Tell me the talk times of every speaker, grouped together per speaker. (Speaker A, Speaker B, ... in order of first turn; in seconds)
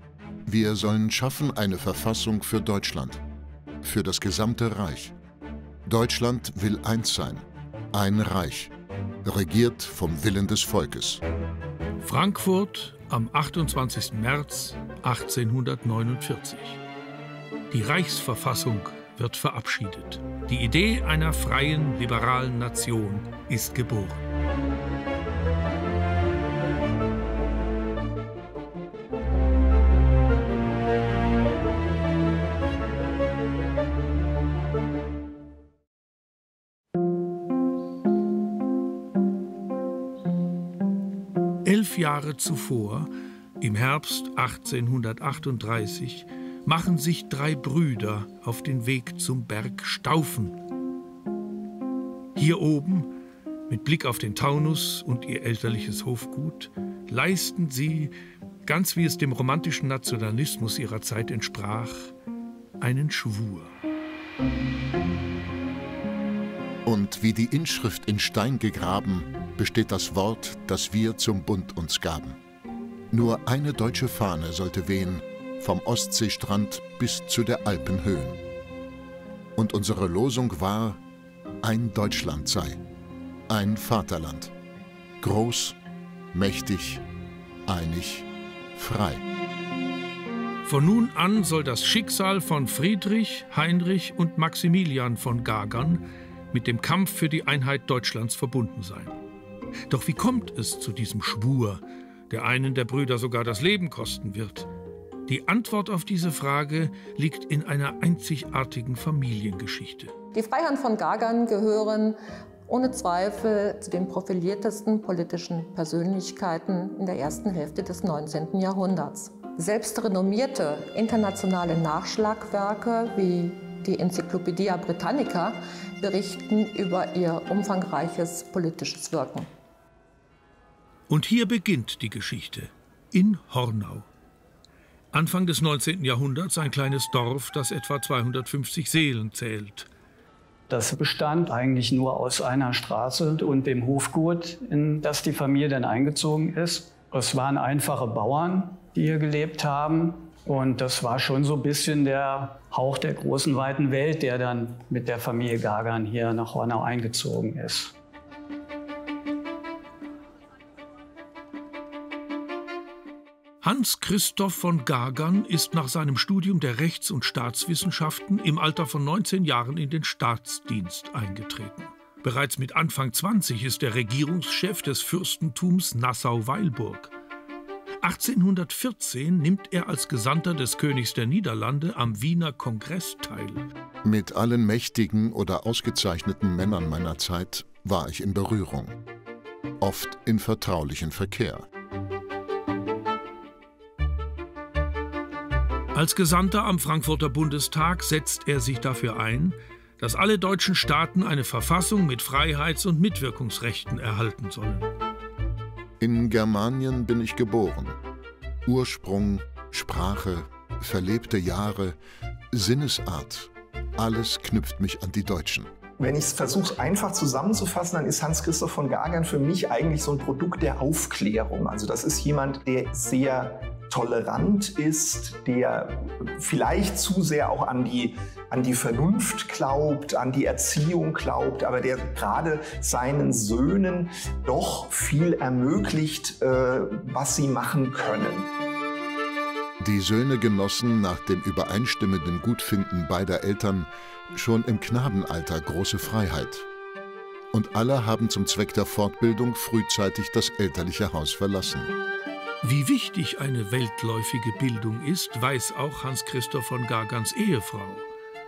Speaker A: 0.5-3.2, 3.8-5.1, 5.8-8.7, 9.2-11.2, 66.8-72.4, 73.1-78.4, 79.5-81.0, 81.6-82.8, 83.5-84.5, 85.2-85.8, 86.3-87.0, 87.7-89.2, 184.0-188.9, 189.8-191.7, 206.0-208.0, 208.6-212.0, 212.5-215.7, 239.8-246.7, 247.5-251.9
Speaker B: 12.0-16.8, 17.7-24.2, 41.6-50.6, 52.3-53.1, 53.7-58.1, 58.6-62.1, 62.8-63.7, 90.6-99.2, 99.9-104.7, 105.3-110.1, 131.1-134.1, 135.1-139.9, 163.6-177.1, 178.0-183.7, 195.9-204.9, 252.6-258.1
Speaker C: 110.3-129.5
Speaker D: 140.7-157.9
Speaker E: 216.0-238.5